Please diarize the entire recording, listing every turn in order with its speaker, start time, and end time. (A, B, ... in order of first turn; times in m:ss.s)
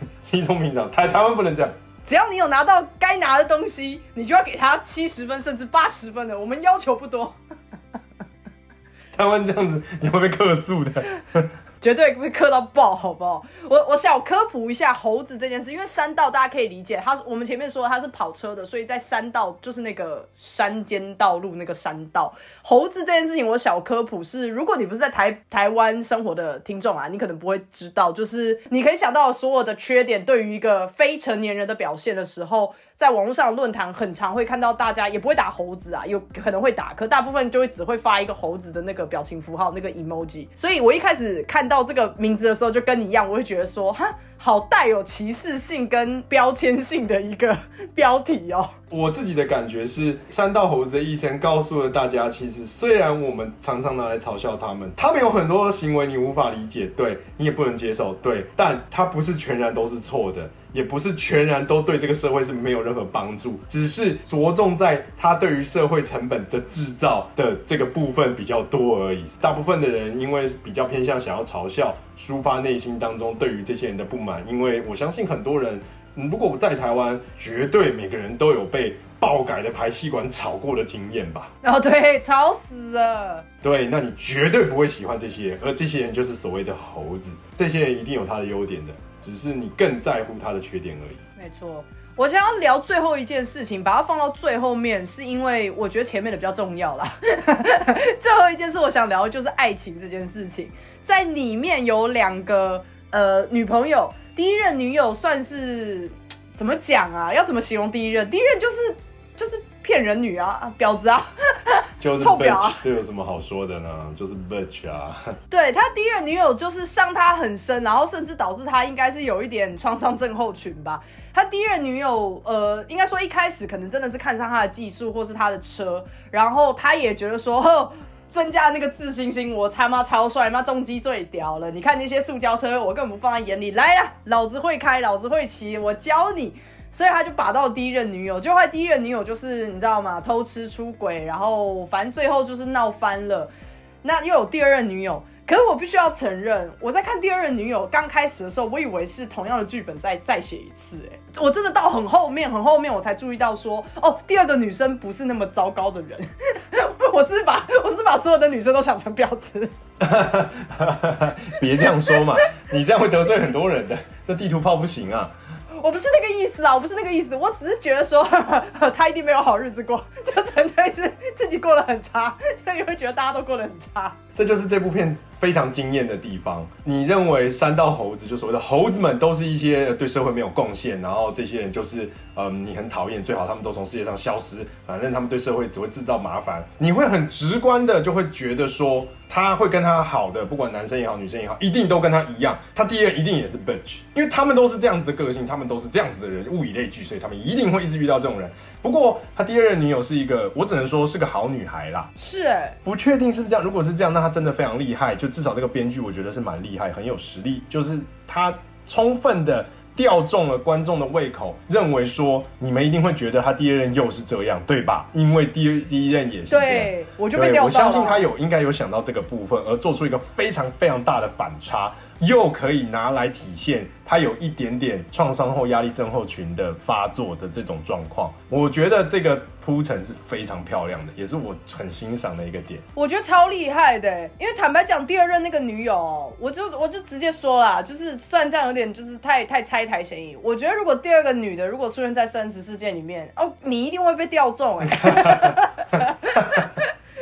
0:00.2-0:01.7 A
0:02.1-0:07.4 B
0:09.2-0:11.5 A
0:11.8-0:48.7 B
0:48.9-1:21.5 A
1:21.6-1:23.5 B
1:23.6-1:31.2 A
1:31.4-1:52.8 B
1:52.0-1:55.4 A
1:55.5-2:23.5 B
2:24.0-2:39.7 B
2:40.0-2:45.3 A
2:45.8-2:54.2 B
2:54.4-3:22.1 A
3:22.2-3:22.8 B
3:22.8-3:52.8 A
3:36.5-3:38.2 B
3:53.0-4:06.9 B